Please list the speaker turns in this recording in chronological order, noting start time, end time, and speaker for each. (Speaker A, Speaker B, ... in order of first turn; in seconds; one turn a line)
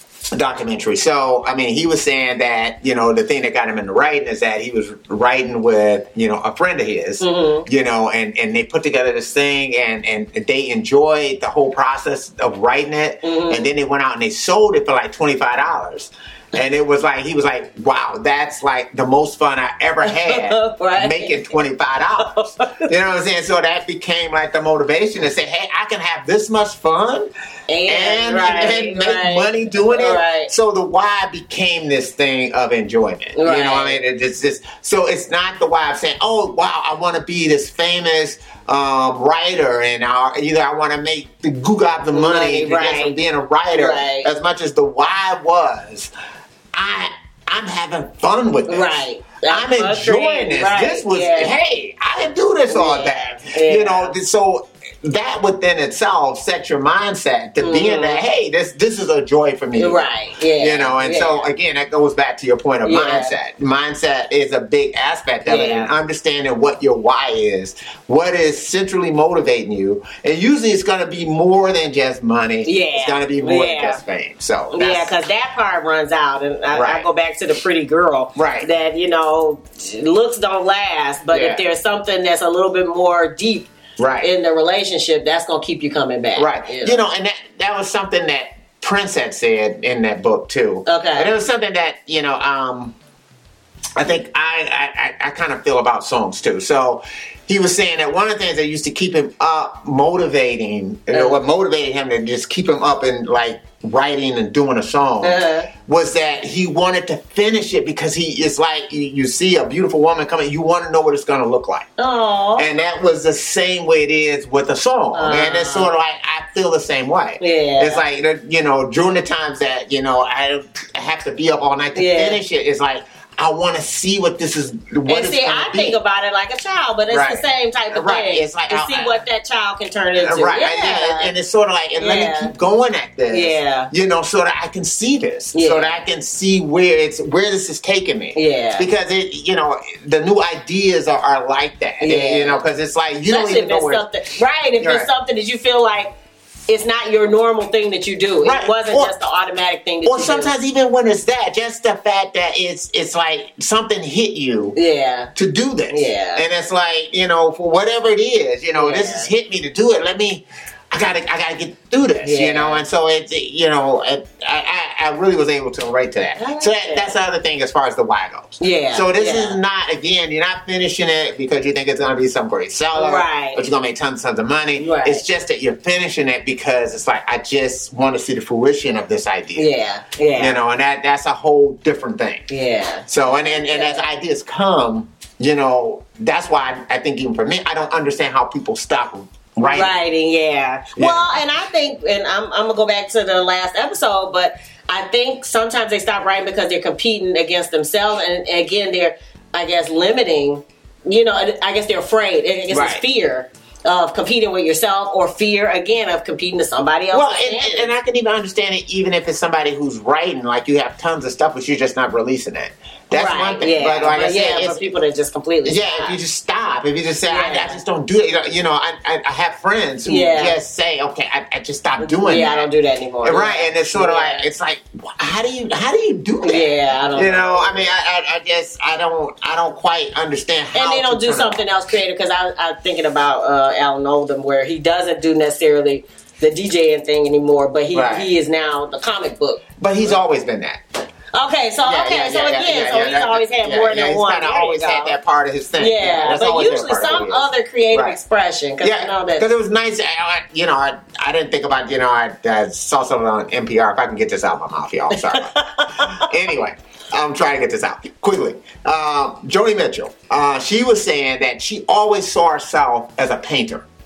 Speaker A: 0.3-27.3
Speaker B: 7.2-7.7
Speaker B: 13.2-13.7
Speaker B: 20.0-21.6
Speaker B: 22.2-22.9
Speaker B: 27.7-30.5
Speaker A: 27.9-46.1
Speaker B: 33.4-34.0
Speaker B: 42.1-43.2
Speaker B: 43.7-44.3
Speaker A: 46.7-75.1
Speaker B: 48.7-51.6
Speaker B: 52.7-54.2
Speaker B: 57.6-58.2
Speaker B: 59.7-61.5
Speaker B: 62.8-63.3
Speaker B: 65.5-65.9
Speaker B: 72.6-74.0
Speaker B: 74.7-87.0
Speaker A: 76.7-77.1
Speaker A: 78.3-78.7
Speaker A: 81.3-81.6
Speaker A: 84.0-84.3
Speaker A: 86.3-93.0
Speaker B: 90.8-91.3
Speaker A: 94.0-111.9
Speaker B: 101.1-101.4
Speaker B: 105.2-105.7
Speaker B: 112.0-112.7
Speaker A: 112.6-126.0
Speaker B: 115.1-115.9
Speaker B: 117.4-118.0
Speaker B: 122.0-122.4
Speaker B: 125.0-131.3
Speaker A: 127.1-129.2
Speaker A: 130.2-144.0
Speaker B: 131.9-132.5
Speaker B: 133.3-133.9
Speaker B: 135.5-135.9
Speaker B: 138.3-138.9
Speaker B: 142.0-142.7
Speaker B: 143.3-146.1
Speaker A: 144.8-145.1
Speaker B: 146.7-150.5
Speaker A: 148.4-149.1
Speaker A: 150.1-154.8
Speaker B: 154.7-155.3
Speaker A: 155.3-179.7
Speaker B: 155.9-156.4
Speaker B: 158.7-159.3
Speaker B: 162.2-162.8
Speaker B: 166.3-167.2
Speaker B: 168.6-169.6
Speaker B: 172.9-173.7
Speaker B: 174.8-175.2
Speaker B: 179.6-180.6
Speaker A: 180.3-182.5
Speaker B: 182.5-184.1
Speaker A: 183.1-190.0
Speaker B: 189.7-207.9
Speaker A: 191.0-191.3
Speaker A: 202.7-203.0
Speaker A: 207.1-214.8
Speaker B: 213.1-216.2
Speaker A: 215.7-222.7
Speaker B: 217.2-217.8
Speaker B: 220.1-220.6
Speaker B: 222.0-224.5
Speaker A: 223.2-231.7
Speaker B: 226.4-227.9
Speaker B: 230.7-240.2
Speaker A: 237.9-238.3
Speaker A: 239.8-240.8
Speaker B: 241.3-245.2
Speaker A: 241.8-248.2
Speaker B: 245.8-249.5
Speaker A: 248.8-263.9
Speaker B: 255.1-256.3